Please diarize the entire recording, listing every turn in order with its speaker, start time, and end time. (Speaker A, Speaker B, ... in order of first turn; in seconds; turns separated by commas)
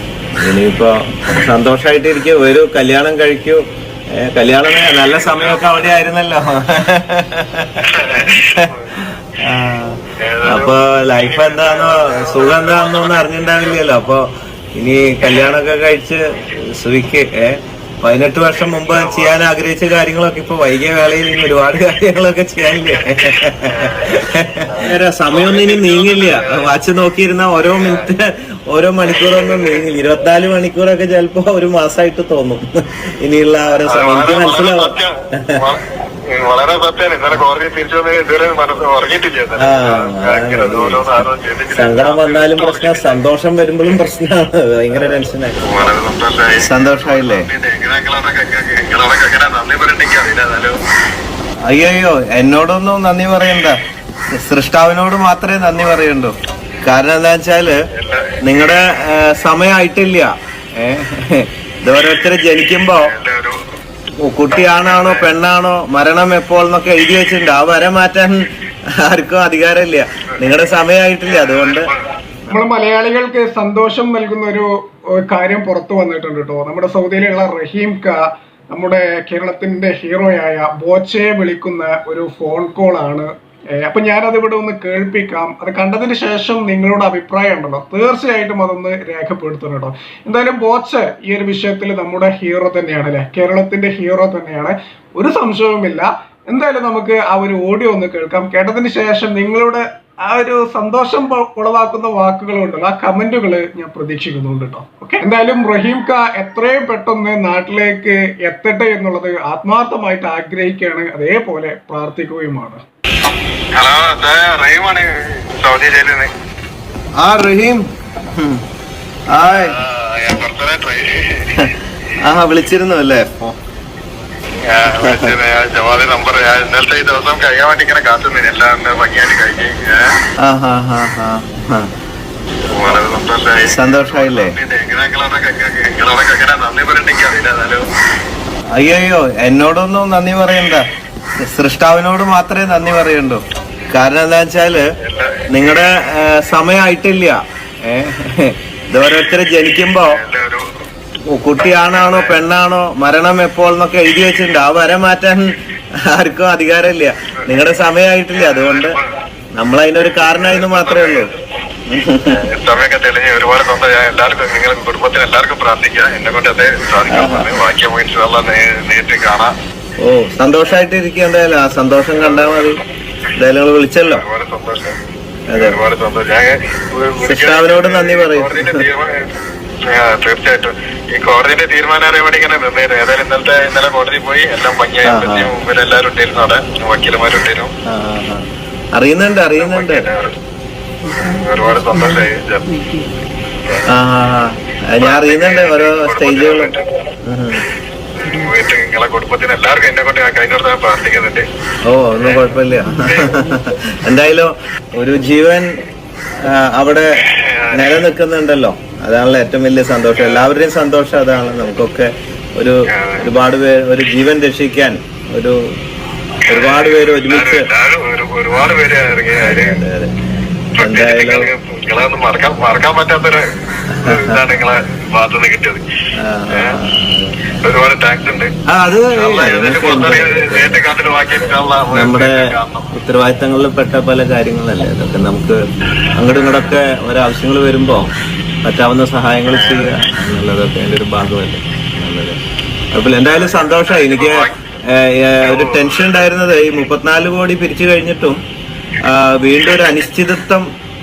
Speaker A: 0.4-3.6, Speaker A: 4.1-14.2, Speaker B: 4.7-6.0, Speaker B: 7.8-8.9, Speaker B: 10.2-13.8, Speaker A: 14.8-35.6, Speaker B: 15.3-15.6, Speaker B: 18.6-19.3, Speaker B: 22.9-26.7, Speaker B: 27.7-28.1, Speaker B: 29.1-29.8, Speaker B: 33.9-43.2, Speaker A: 39.6-41.2, Speaker A: 41.7-45.9, Speaker B: 45.6-50.8, Speaker A: 46.6-47.5, Speaker A: 51.7-53.8, Speaker A: 54.3-57.8, Speaker B: 57.9-58.7, Speaker A: 58.4-63.1, Speaker B: 63.0-63.6, Speaker A: 64.2-68.4, Speaker B: 64.5-65.3, Speaker A: 69.0-71.9, Speaker B: 71.3-72.0, Speaker C: 72.5-112.8, Speaker B: 113.8-116.3, Speaker A: 117.2-117.8, Speaker A: 118.3-118.6, Speaker A: 119.3-119.8, Speaker B: 119.4-121.7, Speaker A: 122.2-123.5, Speaker B: 124.6-130.1, Speaker A: 125.0-125.3, Speaker A: 130.4-131.9, Speaker B: 132.7-137.8, Speaker A: 133.7-134.6, Speaker A: 138.7-140.8, Speaker A: 141.4-144.8, Speaker B: 145.0-145.9, Speaker A: 145.5-150.2, Speaker B: 150.1-150.6, Speaker A: 151.3-155.5, Speaker B: 151.9-152.4, Speaker A: 156.0-159.0, Speaker B: 158.3-159.1, Speaker A: 159.5-161.3, Speaker B: 160.2-161.3, Speaker A: 161.9-162.3, Speaker B: 162.3-169.5, Speaker A: 167.1-167.5, Speaker A: 170.0-172.8, Speaker B: 172.2-172.6, Speaker A: 173.4-174.2, Speaker B: 174.1-175.0, Speaker A: 175.5-175.8, Speaker B: 175.5-179.3, Speaker A: 177.2-178.8, Speaker B: 179.8-187.7, Speaker A: 185.0-185.5, Speaker A: 187.8-190.1, Speaker B: 189.6-190.4, Speaker B: 191.2-192.8, Speaker A: 193.9-196.7, Speaker B: 195.0-196.9, Speaker A: 197.2-197.7, Speaker B: 198.2-201.4, Speaker A: 201.8-205.7, Speaker B: 202.1-203.3, Speaker A: 206.4-215.6, Speaker B: 207.2-208.0, Speaker B: 210.2-210.4, Speaker B: 212.9-213.3, Speaker B: 216.4-219.8, Speaker A: 216.5-217.7, Speaker A: 219.4-220.1, Speaker B: 220.8-223.4, Speaker A: 220.8-221.5, Speaker A: 223.9-224.4, Speaker B: 224.0-225.8, Speaker A: 226.2-227.4, Speaker B: 226.5-226.8, Speaker B: 227.5-228.5, Speaker A: 228.7-230.8, Speaker B: 229.1-232.9, Speaker A: 231.9-235.6, Speaker A: 236.1-238.1, Speaker A: 238.6-242.4, Speaker B: 239.5-239.9, Speaker A: 242.9-248.4, Speaker B: 243.2-244.5, Speaker B: 245.4-246.2, Speaker A: 249.0-250.6, Speaker B: 249.6-249.9